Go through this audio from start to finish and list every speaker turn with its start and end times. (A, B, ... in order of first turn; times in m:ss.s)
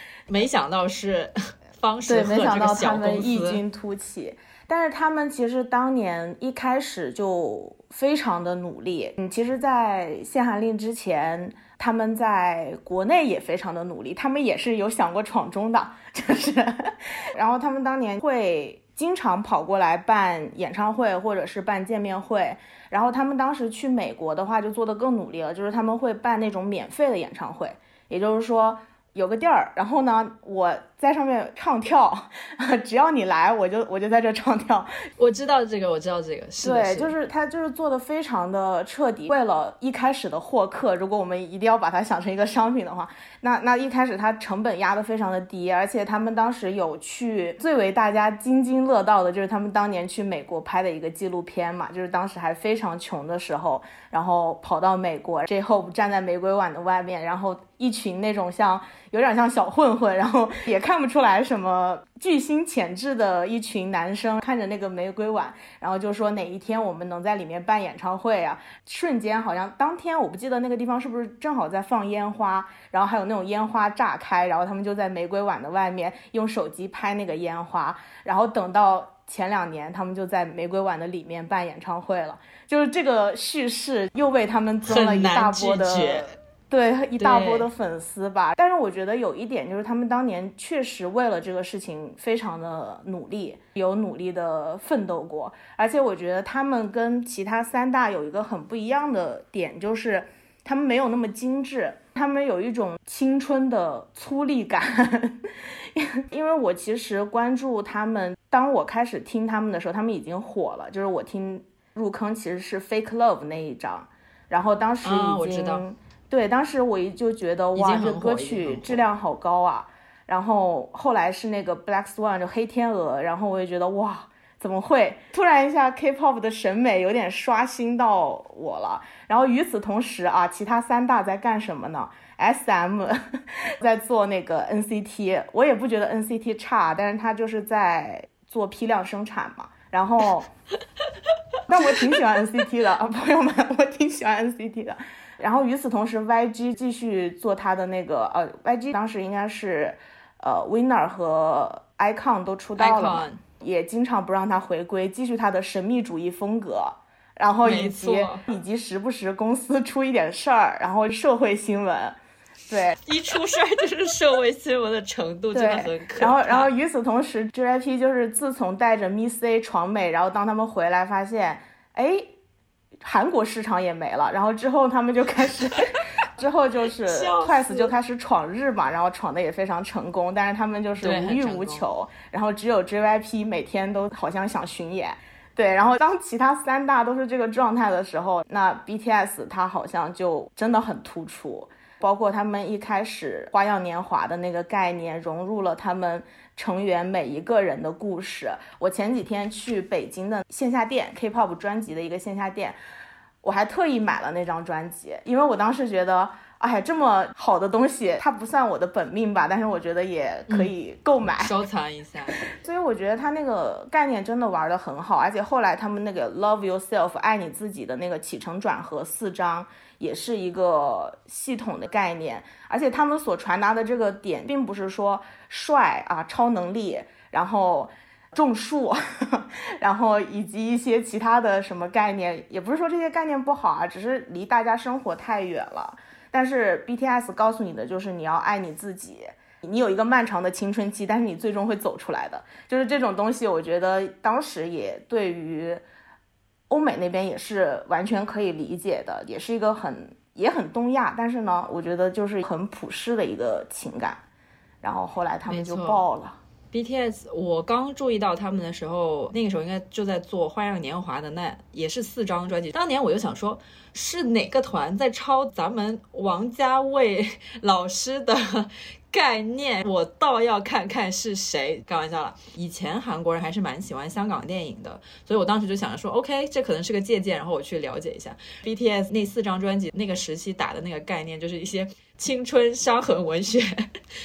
0:00.3-0:03.6 A
0:02.0-0:34.9 B
0:35.2-0:37.1 A
0:36.6-2:20.5 B
1:24.8-1:26.4 A
1:27.2-1:27.7 A
1:55.0-1:55.8 A
1:57.8-1:59.0 A
2:21.7-2:42.2 B
2:32.8-2:33.4 A
2:37.6-2:38.4 A
2:42.7-2:42.9 B
2:43.0-2:46.7 A
2:45.5-2:52.3 B
2:53.0-3:22.8 B
2:57.1-2:57.9 A
3:01.0-3:01.8 A
3:23.4-3:31.5 B
3:31.2-3:32.5 A
3:32.4-4:05.8 B
4:06.7-4:14.2 B
4:14.8-4:16.4 B
4:15.5-4:16.1 A
4:16.7-4:43.9 A